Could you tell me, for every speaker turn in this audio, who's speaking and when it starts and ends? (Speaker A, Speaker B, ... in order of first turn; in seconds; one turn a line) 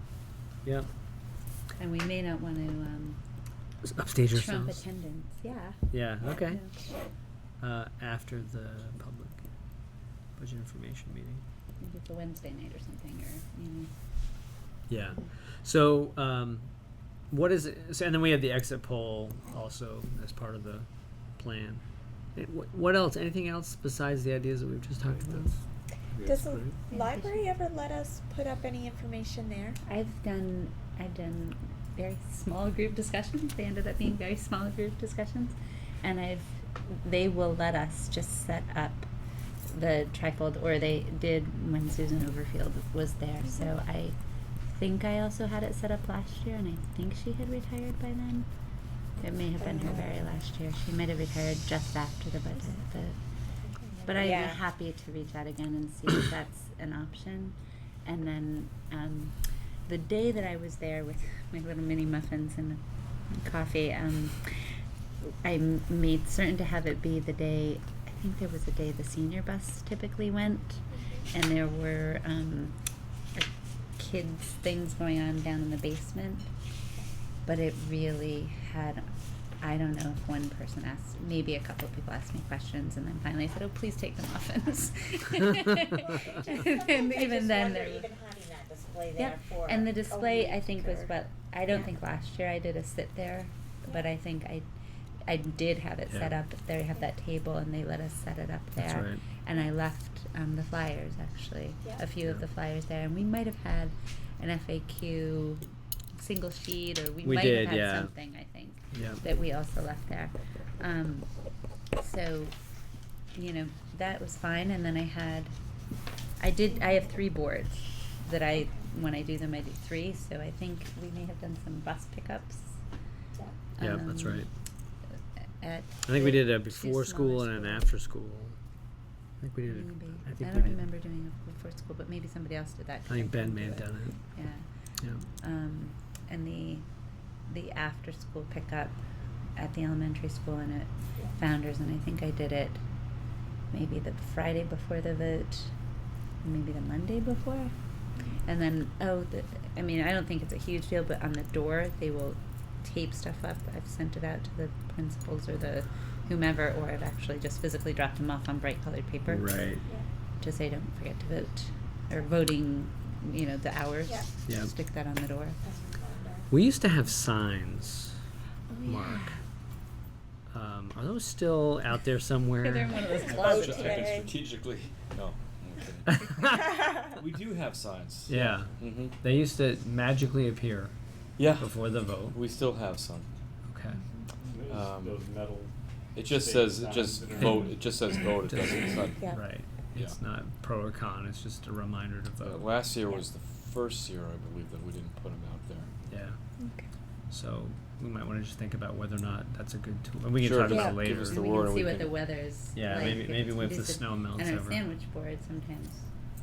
Speaker A: 1.8-3.2
Speaker B: 3.9-4.8
Speaker A: 4.3-5.8
Speaker B: 5.9-6.6
Speaker A: 6.4-6.7
Speaker B: 7.6-9.4
Speaker B: 10.4-11.4
Speaker A: 11.8-13.9
Speaker B: 14.9-16.7
Speaker B: 17.3-21.8
Speaker B: 22.3-25.6
Speaker C: 26.2-29.8
Speaker A: 26.9-27.5
Speaker A: 29.9-39.1
Speaker A: 39.6-44.1
Speaker A: 44.7-48.5
Speaker A: 49.2-53.2
Speaker C: 49.6-50.1
Speaker C: 53.6-54.6
Speaker A: 54.0-72.8
Speaker A: 73.3-76.5
Speaker A: 77.5-79.0
Speaker A: 79.6-88.1
Speaker C: 86.0-91.1
Speaker A: 89.2-94.6
Speaker A: 95.2-111.3
Speaker B: 98.8-99.2
Speaker B: 107.2-108.1
Speaker B: 108.9-109.2
Speaker A: 112.0-112.6
Speaker A: 113.3-115.5
Speaker A: 116.4-122.8
Speaker A: 123.8-124.5
Speaker B: 123.8-124.5
Speaker A: 125.6-127.9
Speaker B: 126.0-128.6
Speaker B: 129.4-130.8
Speaker A: 129.6-134.7
Speaker B: 133.1-134.2
Speaker B: 135.0-135.2
Speaker A: 135.4-136.8
Speaker A: 137.5-139.0
Speaker A: 139.6-142.8
Speaker A: 143.7-145.7
Speaker A: 146.4-147.7
Speaker A: 148.4-159.6
Speaker B: 159.3-159.8
Speaker A: 160.4-165.6
Speaker C: 165.6-166.4
Speaker B: 166.5-168.2
Speaker C: 168.7-169.3
Speaker B: 168.8-169.4
Speaker B: 170.5-173.4
Speaker A: 172.6-174.1
Speaker C: 173.2-174.3
Speaker D: 173.3-176.4
Speaker B: 176.1-176.6
Speaker D: 177.0-179.2
Speaker B: 178.3-180.9
Speaker D: 181.4-183.3
Speaker B: 181.6-182.4
Speaker B: 183.7-184.0
Speaker E: 184.5-185.7
Speaker D: 184.7-185.2
Speaker D: 186.2-189.3
Speaker E: 186.3-187.7
Speaker B: 187.4-187.7
Speaker B: 188.4-192.6
Speaker D: 192.4-195.9
Speaker B: 196.1-196.4
Speaker C: 196.6-196.8
Speaker B: 197.3-201.4
Speaker D: 200.4-202.2
Speaker A: 201.2-206.1
Speaker B: 202.7-204.8